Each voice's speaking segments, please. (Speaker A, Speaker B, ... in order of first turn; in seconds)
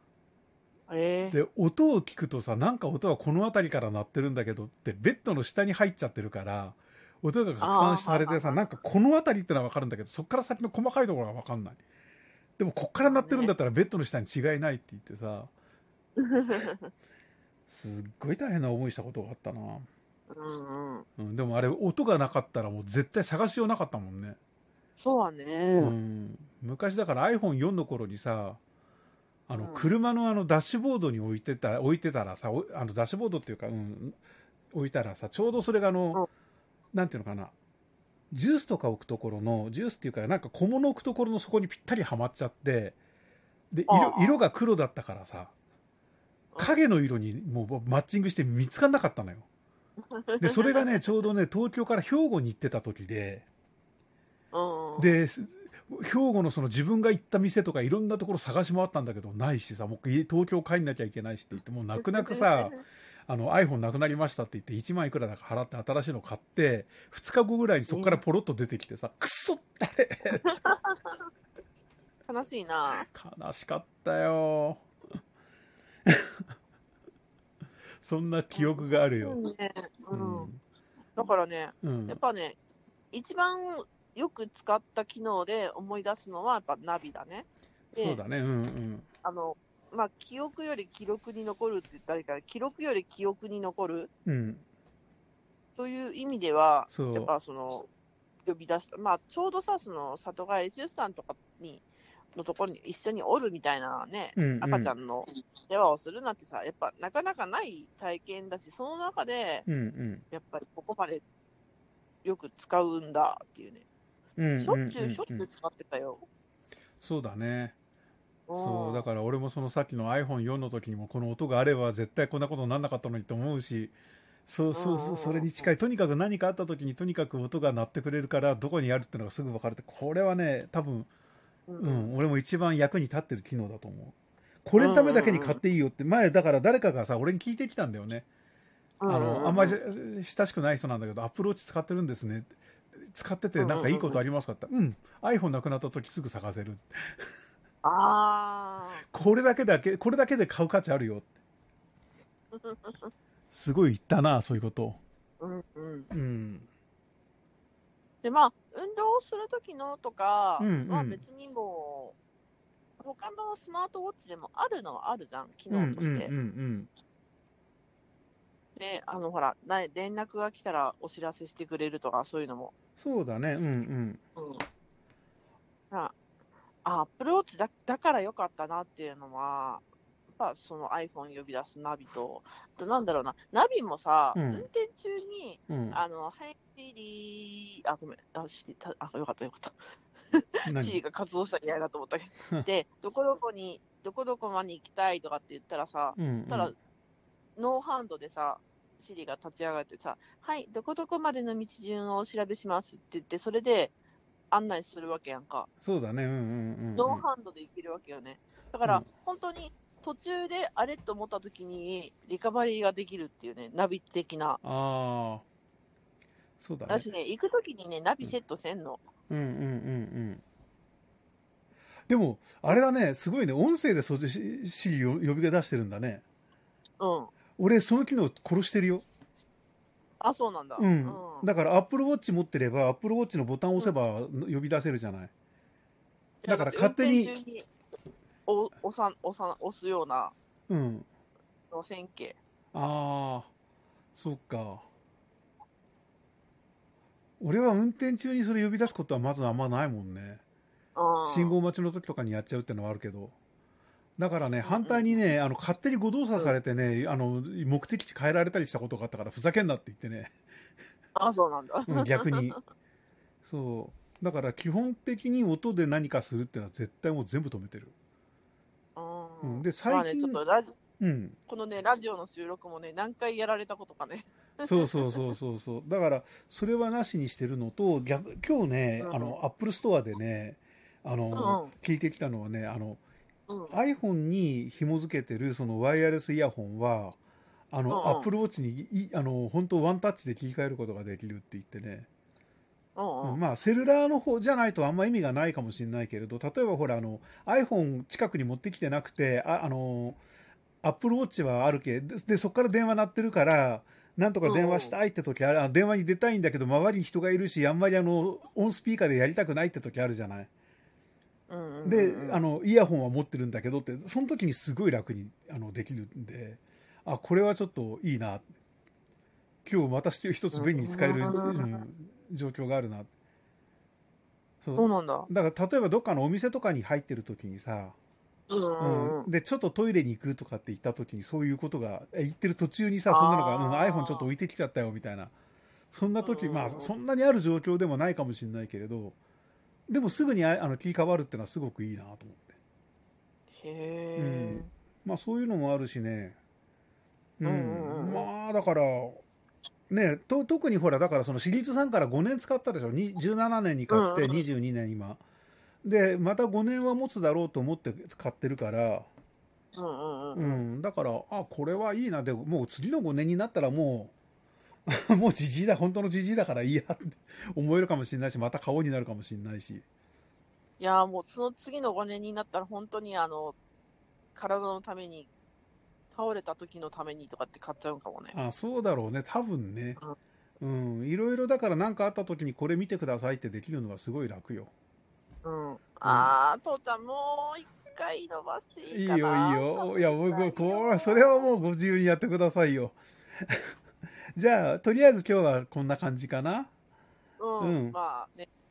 Speaker A: 0.9-1.4, 7.6-8.6, 13.0-13.5, 16.2-16.9, 20.3-21.1, 25.0-25.9, 29.6-29.9, 43.9-44.4, 46.5-46.8, 50.1-51.0, 54.5-55.2, 62.0-62.8, 67.9-68.2, 70.6-71.1, 72.3-73.1, 78.5-80.5, 81.2-82.6, 83.1-88.2, 89.2-94.1, 95.8-97.9, 98.5-109.7, 110.3-111.2, 112.2-113.8, 114.6-116.2, 118.5-119.1, 124.7-125.7, 131.7-132.1, 134.8-135.6, 139.0-139.8, 143.6-144.2, 147.8-149.0, 152.5-153.1, 155.4-156.1, 158.2-162.2, 163.0-166.3, 168.8-172.7, 174.4-174.6, 176.8-179.8, 180.3-189.8, 190.3-196.8, 197.6-203.9, 204.5-205.7, 207.0-214.6, 216.9-219.0, 227.0-227.3, 230.2-231.5, 236.4-237.7, 238.5-240.3, 241.7-242.4, 251.0-251.6, 254.6-255.3, 261.1-262.5, 269.0-270.8, 271.5-275.2, 279.0-279.4, 281.4-281.7, 283.5-283.7, 287.9-288.3, 293.0-293.4, 304.4-305.0, 311.5-312.4, 320.5-321.8, 324.8-325.3, 328.5-329.3, 333.1-334.3, 336.2-336.9, 343.5-344.7, 347.4-348.3, 353.9-354.4, 359.8-360.6, 370.8-373.6, 374.4-375.3, 376.1-378.4, 385.4-391.5, 397.4-398.5
Speaker B: 1.3-11.8, 12.6-15.5, 17.7-19.9, 21.2-24.4, 25.8-28.6, 29.5-34.2, 34.7-36.2, 36.9-37.5, 38.3-43.0, 43.7-45.5, 46.6-49.5, 50.4-53.5, 55.0-70.5, 73.1-74.8, 76.1-76.4, 78.0-79.4, 80.1-80.6, 81.8-82.2, 87.9-89.1, 94.2-94.6, 96.9-97.3, 104.3-104.9, 109.7-110.2, 114.4-115.5, 117.0-117.8, 118.5-123.9, 124.5-131.1, 131.8-138.3, 139.1-147.1, 149.1-151.3, 153.5-155.0, 156.1-156.7, 160.6-161.2, 165.7-166.9, 173.0-174.2, 184.3-184.7, 185.7-186.0, 190.7-191.0, 196.2-196.7, 205.8-207.2, 214.6-215.5, 216.6-217.1, 219.3-220.4, 222.1-226.2, 227.6-229.0, 230.8-235.3, 236.5-237.3, 240.7-241.1, 242.7-243.5, 244.1-244.8, 247.4-250.4, 251.3-253.3, 254.2-260.4, 261.9-262.6, 263.4-267.9, 269.4-270.4, 271.0-271.4, 274.6-283.0, 283.7-287.2, 287.7-292.1, 293.2-300.2, 300.8-310.5, 311.9-318.5, 319.6-323.1, 324.6-328.0, 328.8-335.3, 335.9-339.2, 339.9-342.5, 344.2-346.4, 347.4-349.2, 349.9-355.2, 355.8-359.1, 360.4-364.1, 364.9-369.9, 378.3-380.0, 380.6-384.7, 386.0-386.3, 388.9-393.8, 394.4-396.7, 397.6-398.0